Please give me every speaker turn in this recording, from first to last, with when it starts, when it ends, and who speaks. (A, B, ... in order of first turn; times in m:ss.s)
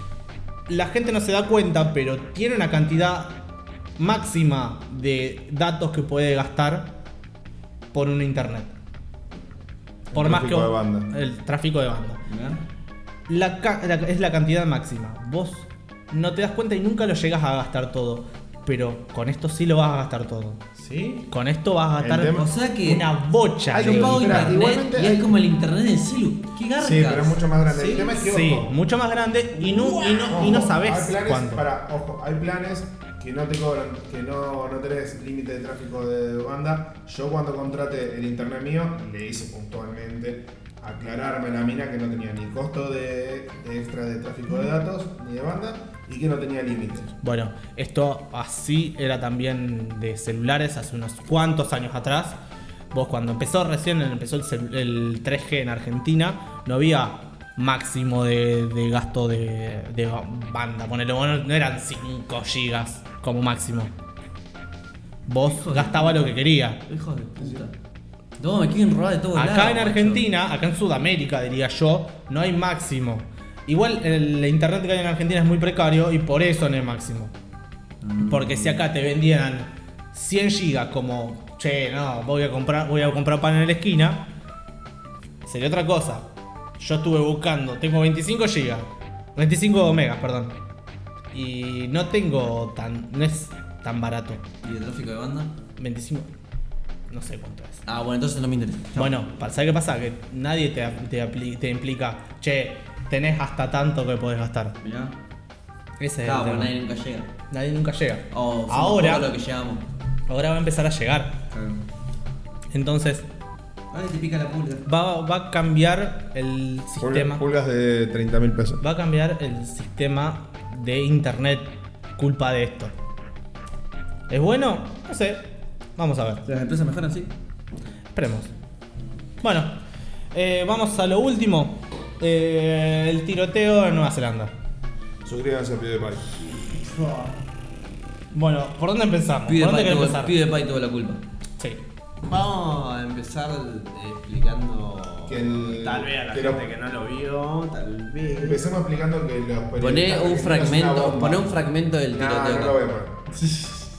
0:00.7-0:03.4 A
0:04.0-0:06.9 A
0:07.9-0:08.7 A
0:10.1-0:11.1 B
0:10.1-0:12.2 A
0:12.3-0:12.6 C
0:13.3-0:20.6 A
0:20.8-0:21.2 D
0:21.3-0:24.6 A
0:22.0-0:22.5 B
0:22.3-0:23.1 C
0:23.7-0:25.3 B
0:23.8-0:27.4 C
0:26.8-0:28.7 B
0:28.1-0:31.6 A
0:29.6-0:47.1 B
0:47.2-0:52.4 A
0:52.9-1:03.9 A
1:05.3-1:06.8 A
1:05.4-1:07.7 C
1:08.4-1:10.2 C
1:09.4-1:17.3 A
1:18.0-1:18.8 C
1:18.2-1:24.2 A
1:25.4-1:26.2 A
1:26.8-1:30.6 A
1:31.3-1:34.4 A
1:34.6-1:35.6 C
1:35.8-1:36.3 A
1:37.1-1:37.8 A
1:37.9-1:39.5 C
1:39.0-1:44.8 A
1:44.8-1:45.2 C
1:46.0-1:46.7 A
1:46.2-1:47.3 C
1:47.5-1:49.3 A
1:48.3-1:49.8 C
1:50.3-1:51.4 A
1:51.5-1:51.8 C
1:52.7-1:53.3 A
1:53.9-1:54.8 C
1:54.9-1:57.4 A
1:57.0-1:58.8 B
1:58.8-2:02.9 A
2:04.3-2:05.4 A
2:06.0-2:06.4 A
2:06.4-2:07.3 C
2:08.1-2:08.5 A
2:09.4-2:09.8 A
2:10.3-2:14.5 A
2:15.2-2:16.2 B
2:16.7-2:17.3 D
2:18.3-2:20.4 A
2:19.5-2:21.2 C
2:22.3-2:28.6 D
2:25.3-2:26.7 B
2:28.2-2:31.5 B
2:29.8-2:32.8 C
2:32.1-2:33.2 B
2:33.4-2:33.9 D